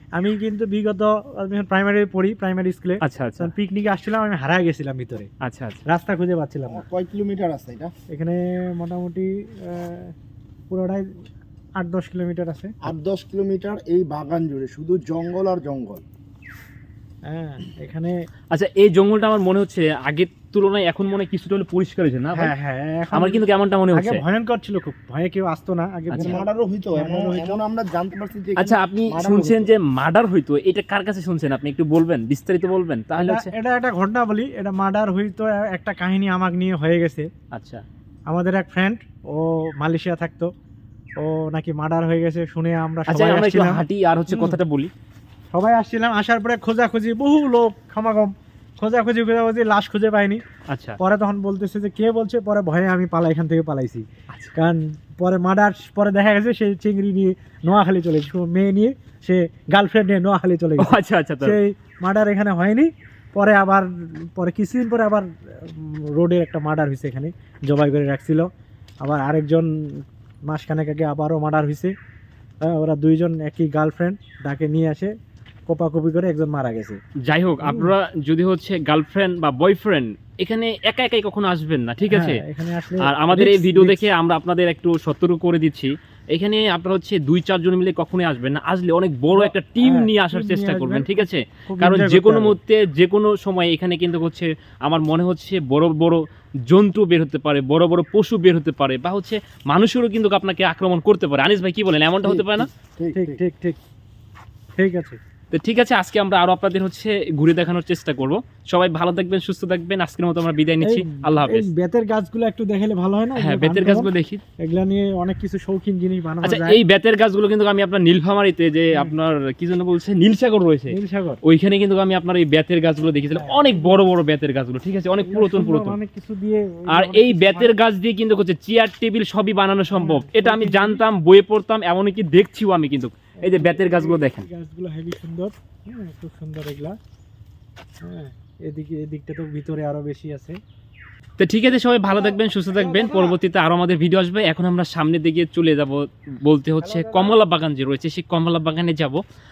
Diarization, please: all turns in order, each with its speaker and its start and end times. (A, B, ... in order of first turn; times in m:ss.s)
0:00.2-0:05.3 A
0:03.0-0:03.5 B
0:05.4-0:05.8 B
0:05.9-0:06.8 A
0:06.7-0:07.9 C
0:08.1-0:10.1 A
0:10.7-0:11.1 A
0:11.8-0:12.8 A
0:12.8-0:16.0 C
0:17.3-0:18.1 A
0:18.5-0:22.5 B
0:22.3-0:27.6 A
0:23.1-0:24.2 B
0:26.1-0:26.4 B
0:26.1-0:29.7 C
0:28.6-0:33.5 B
0:33.2-0:37.3 A
0:37.5-0:37.8 B
0:38.3-0:40.5 A
0:41.2-0:44.6 A
0:43.1-0:44.9 B
0:45.5-0:50.4 A
0:50.7-0:51.0 B
0:51.0-1:08.5 A
1:00.8-1:01.6 B
1:09.0-1:11.9 A
1:12.6-1:15.1 A
1:15.7-1:17.0 A
1:17.3-1:22.4 B
1:17.6-1:17.9 A
1:22.1-1:24.1 A
1:23.0-1:42.7 B
1:29.3-1:32.6 A
1:42.2-1:43.4 C
1:43.2-1:43.8 A
1:44.8-1:45.2 A
1:45.5-1:51.7 B
1:50.8-1:54.1 A
1:53.4-1:54.4 B
1:54.6-1:56.8 A
1:56.4-2:06.0 B
2:00.9-2:01.4 A
2:03.3-2:04.0 A
2:05.2-2:07.7 A
2:06.9-2:14.5 B
2:09.9-2:11.0 A
2:13.4-2:17.0 A
2:18.0-2:20.6 A
2:21.4-2:29.2 B
2:22.1-2:23.4 A
2:26.8-2:27.4 A